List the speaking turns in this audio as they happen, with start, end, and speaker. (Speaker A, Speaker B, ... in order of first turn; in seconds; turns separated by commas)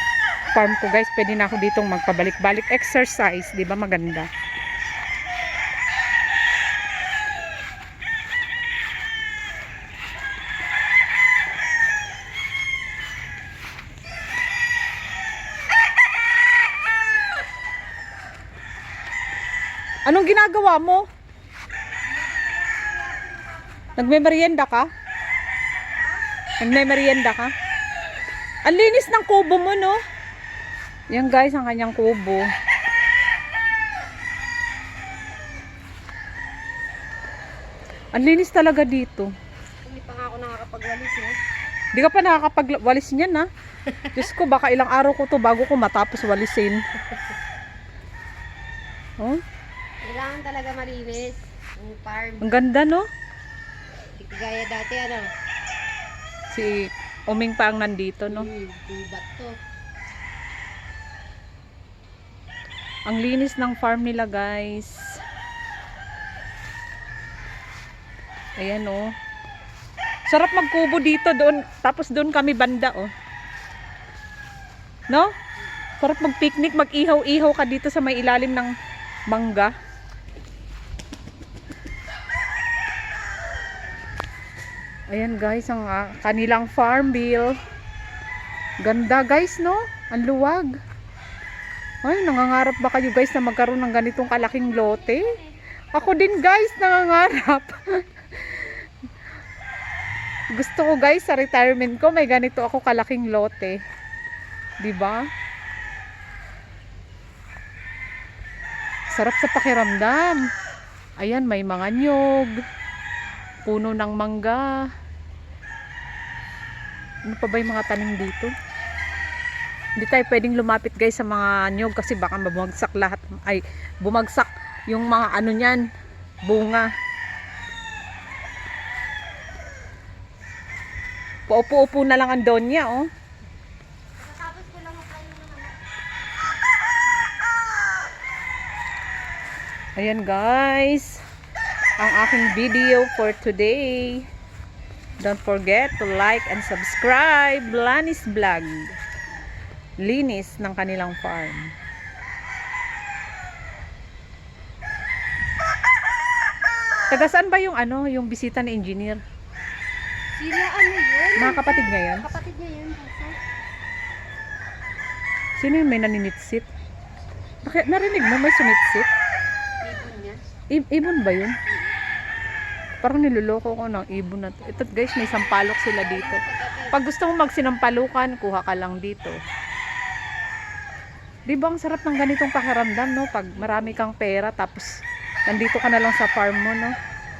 Speaker A: 0.6-4.3, Speaker A: 20.1-21.0, Speaker B: 22.1-24.4, Speaker A: 24.0-24.9, Speaker A: 26.6-27.5, Speaker A: 28.6-30.0, Speaker A: 31.1-32.5, Speaker A: 38.1-39.3, Speaker B: 39.8-41.4, Speaker A: 41.9-43.5, Speaker B: 43.8-44.2, Speaker A: 44.1-46.8, Speaker B: 50.0-52.6, Speaker A: 52.4-53.1, Speaker B: 54.2-55.3, Speaker A: 56.5-58.5, Speaker B: 58.3-59.5, Speaker A: 63.1-65.2, Speaker A: 68.6-69.1, Speaker A: 70.3-73.1, Speaker A: 76.0-78.7, Speaker A: 79.3-79.7, Speaker A: 85.1-87.5, Speaker A: 88.8-90.8, Speaker A: 92.0-95.3, Speaker B: 94.3-95.5, Speaker A: 95.9-98.7, Speaker A: 100.5-103.8, Speaker A: 104.8-105.2, Speaker A: 109.1-110.5, Speaker A: 111.2-112.6, Speaker A: 113.7-114.8, Speaker A: 117.3-118.5, Speaker A: 120.0-125.8, Speaker A: 126.5-126.9, Speaker A: 131.5-133.1, Speaker B: 134.2-135.8, Speaker A: 140.0-141.2, Speaker A: 142.0-144.3, Speaker A: 145.2-148.9, Speaker A: 150.0-151.7, Speaker A: 157.1-159.2, Speaker B: 160.4-163.4, Speaker A: 161.4-162.2, Speaker A: 165.6-166.7, Speaker A: 167.6-169.1, Speaker B: 169.8-170.4, Speaker A: 170.7-171.6, Speaker A: 173.0-179.4, Speaker B: 175.2-177.0, Speaker A: 181.5-184.9, Speaker B: 183.6-184.0, Speaker A: 185.5-186.9